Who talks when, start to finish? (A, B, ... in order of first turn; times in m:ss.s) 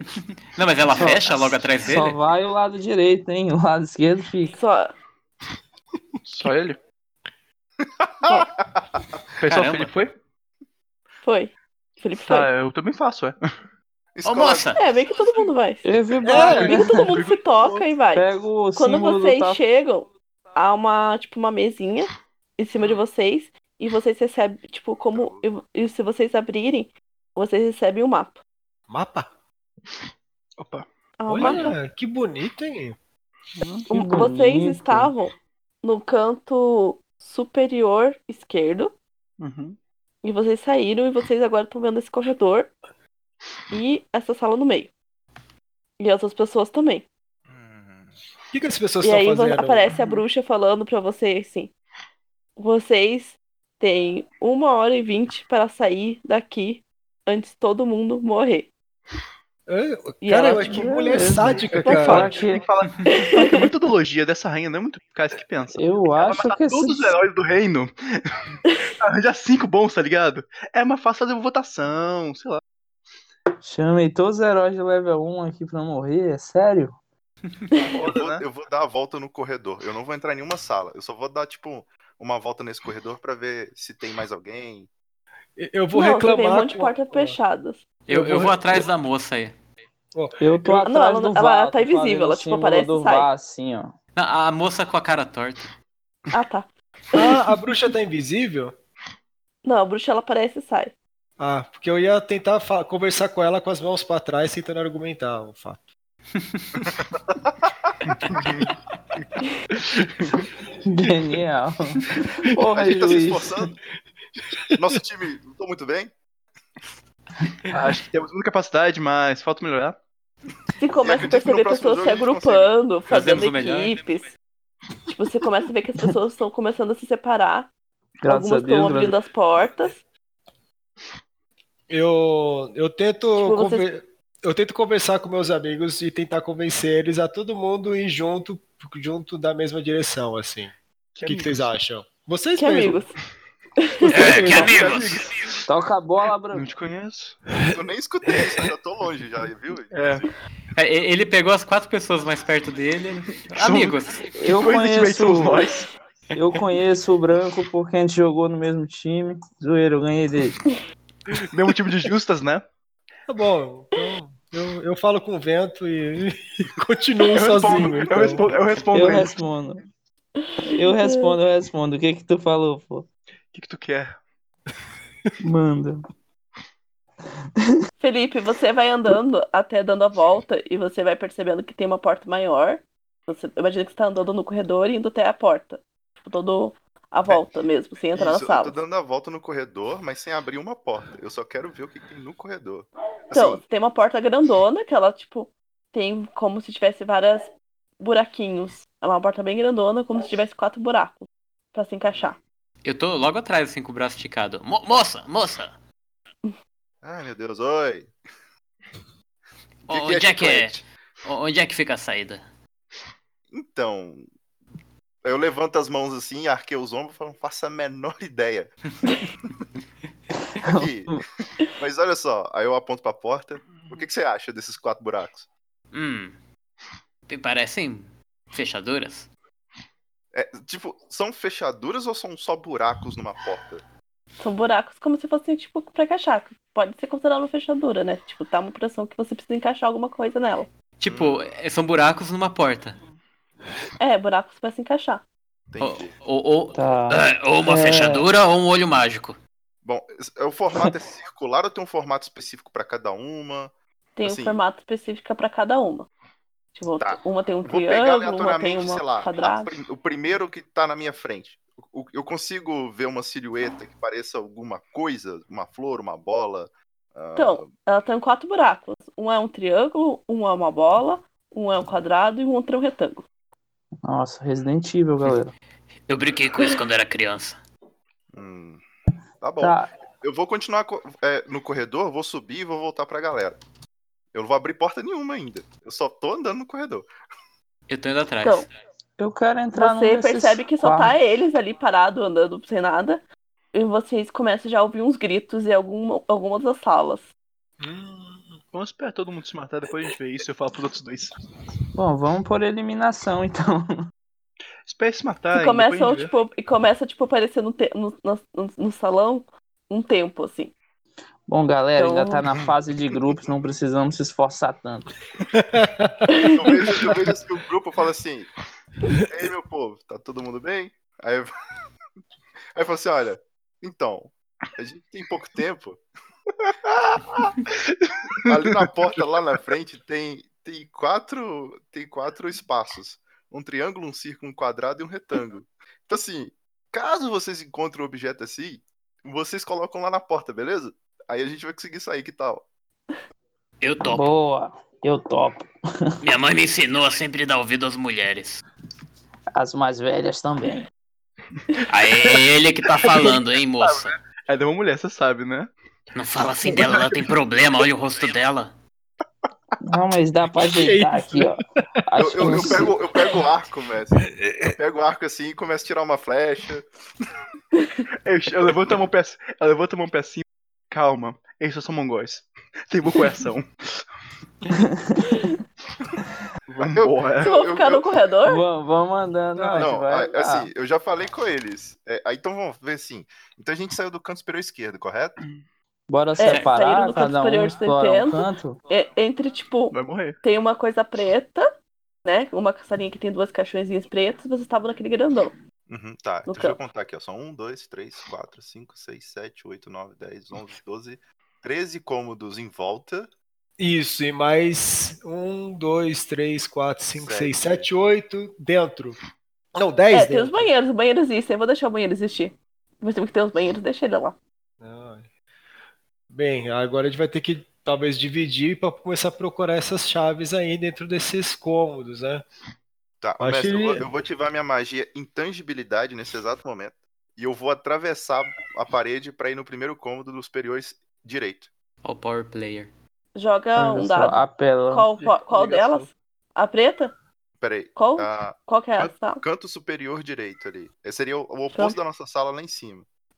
0:00.6-0:02.2 A
0:00.9-0:04.6 B
0:04.5-0:04.9 C
0:06.2-0:06.8 D
0:08.0-0:08.5 E
0:09.4-0:10.2 D
0:09.4-0:09.9 A
0:11.2-0:12.5 C
0:12.1-0:13.4 D
0:14.1-0:14.8 E
0:14.2-0:14.8 A
0:14.8-0:28.4 C
0:15.8-0:17.1 B
0:16.3-0:16.7 F
0:16.3-0:17.8 D
0:18.1-0:19.6 B
0:25.1-0:25.4 E
0:28.9-0:29.3 F
0:30.6-0:30.8 D
0:31.2-0:31.8 C
0:31.3-0:33.0 F
0:31.4-0:31.7 D
0:33.6-0:33.9 D
0:33.9-0:35.1 B
0:33.9-0:38.9 C
0:39.4-0:39.8 D
0:40.2-0:42.7 C
0:43.7-0:44.9 C
0:46.0-0:47.0 C
0:47.5-0:48.1 E
0:48.5-0:50.0 F
0:49.0-0:51.7 C
0:52.6-0:58.7 C
0:59.7-1:02.3 F
1:00.2-1:00.8 C
1:00.7-1:02.6 B
1:01.8-1:02.3 C
1:01.8-1:12.6 D
1:03.0-1:03.7 C
1:05.7-1:07.2 B
1:13.6-1:17.0 B
1:17.9-1:18.4 D
1:18.0-1:24.9 E
1:25.6-1:27.4 F
1:25.9-1:27.8 C
1:28.1-1:29.5 A
1:28.1-1:28.8 F
1:30.1-1:30.4 F
1:30.4-1:33.9 B
1:30.7-1:33.3 C
1:34.2-1:35.7 A
1:36.3-1:37.4 C
1:37.1-1:38.7 F
1:39.6-1:40.9 C
1:41.4-1:45.8 F
1:48.0-1:48.7 D
1:49.7-1:50.4 D
1:50.8-1:53.6 B
1:52.7-1:53.7 E
1:54.7-1:56.1 E
1:57.7-2:00.0 D
2:00.8-2:04.3 C
2:00.9-2:02.7 E
2:03.1-2:03.9 A
2:05.1-2:07.7 C
2:08.2-2:09.1 B
2:08.3-2:10.0 C
2:11.9-2:20.7 F
2:13.4-2:13.8 C
2:21.1-2:21.7 D
2:21.2-2:23.0 F
2:22.6-2:23.1 C
2:23.8-2:24.3 C
2:24.1-2:25.2 A
2:24.2-2:24.8 F
2:24.4-2:25.6 D
2:25.7-2:26.6 B
2:26.5-2:27.4 D
2:27.7-2:30.3 E
2:29.9-2:30.2 D
2:30.7-2:34.3 A
2:33.5-2:35.9 D
2:34.4-2:35.6 B
2:36.3-2:40.6 B
2:41.5-2:42.6 D
2:43.3-2:48.5 F
2:47.3-2:49.4 D
2:48.9-2:49.8 B
2:50.4-2:51.4 C
2:50.7-2:53.0 B
2:53.5-2:54.2 D
2:55.4-2:56.0 B
2:58.0-3:08.7 C
3:08.1-3:13.6 E
3:13.3-3:22.4 C
3:22.8-3:25.7 A
3:27.0-3:28.1 E
3:29.9-3:32.4 A
3:29.9-3:30.8 E
3:33.5-3:34.3 E
3:35.2-3:38.7 E
3:40.6-3:41.2 E
3:40.6-3:41.2 B
3:41.8-3:45.5 E
3:45.9-3:46.3 A
3:47.3-3:49.3 A
3:50.3-3:53.8 E
3:54.4-4:00.7 C
4:01.0-4:03.0 A
4:01.0-4:01.4 E
4:04.0-4:05.2 C
4:05.7-4:06.1 E
4:05.8-4:09.4 A
4:06.7-4:08.2 B
4:09.8-4:13.7 E
4:14.2-4:16.1 C
4:14.2-4:14.6 E
4:16.8-4:19.7 C
4:17.0-4:27.7 E
4:27.4-4:33.2 C
4:34.0-4:35.5 B
4:36.1-4:37.6 A
4:38.3-4:38.8 E
4:39.4-4:43.6 E
4:39.6-4:39.9 B
4:44.3-4:47.1 E
4:47.9-4:48.6 A
4:49.2-4:51.2 B
4:49.7-4:57.3 C
4:57.8-4:58.6 F
4:58.7-5:01.3 D
5:01.9-5:04.1 B
5:04.8-5:06.3 D
5:05.5-5:10.7 C
5:11.5-5:15.1 B
5:12.0-5:12.4 C
5:15.6-5:16.2 F
5:16.3-5:16.9 C
5:16.5-5:18.5 E
5:19.3-5:21.5 E
5:22.7-5:26.0 E
5:26.6-5:28.5 D
5:28.4-5:42.6 E
5:43.8-5:44.2 A
5:44.1-5:45.7 B
5:46.2-5:48.6 A
5:49.5-5:50.9 B
5:51.9-5:54.2 A
5:53.8-5:55.7 D
5:56.1-5:58.7 A
5:56.7-5:57.2 D
5:59.8-6:02.9 B
6:00.6-6:01.5 F
6:02.2-6:06.8 E
6:08.2-6:14.0 D
6:16.7-6:17.5 D
6:16.8-6:18.1 E
6:17.4-6:18.6 C
6:18.5-6:20.7 B
6:19.6-6:19.9 F
6:19.8-6:25.4 E
6:26.1-6:28.8 B
6:26.4-6:31.7 C
6:29.9-6:30.4 D
6:32.2-6:35.6 C
6:35.9-6:43.3 E
6:36.5-6:36.8 C
6:43.8-6:49.2 F
6:47.2-6:47.9 E
6:49.7-6:50.7 F
6:50.1-6:54.4 C
6:54.8-6:55.2 F
6:56.3-7:02.4 F
7:03.2-7:11.7 E
7:03.4-7:04.1 F
7:12.0-7:12.9 A
7:13.4-7:14.4 C
7:13.8-7:15.0 B
7:14.9-7:17.1 C
7:15.2-7:16.1 D
7:17.6-7:23.0 E
7:17.9-7:19.4 C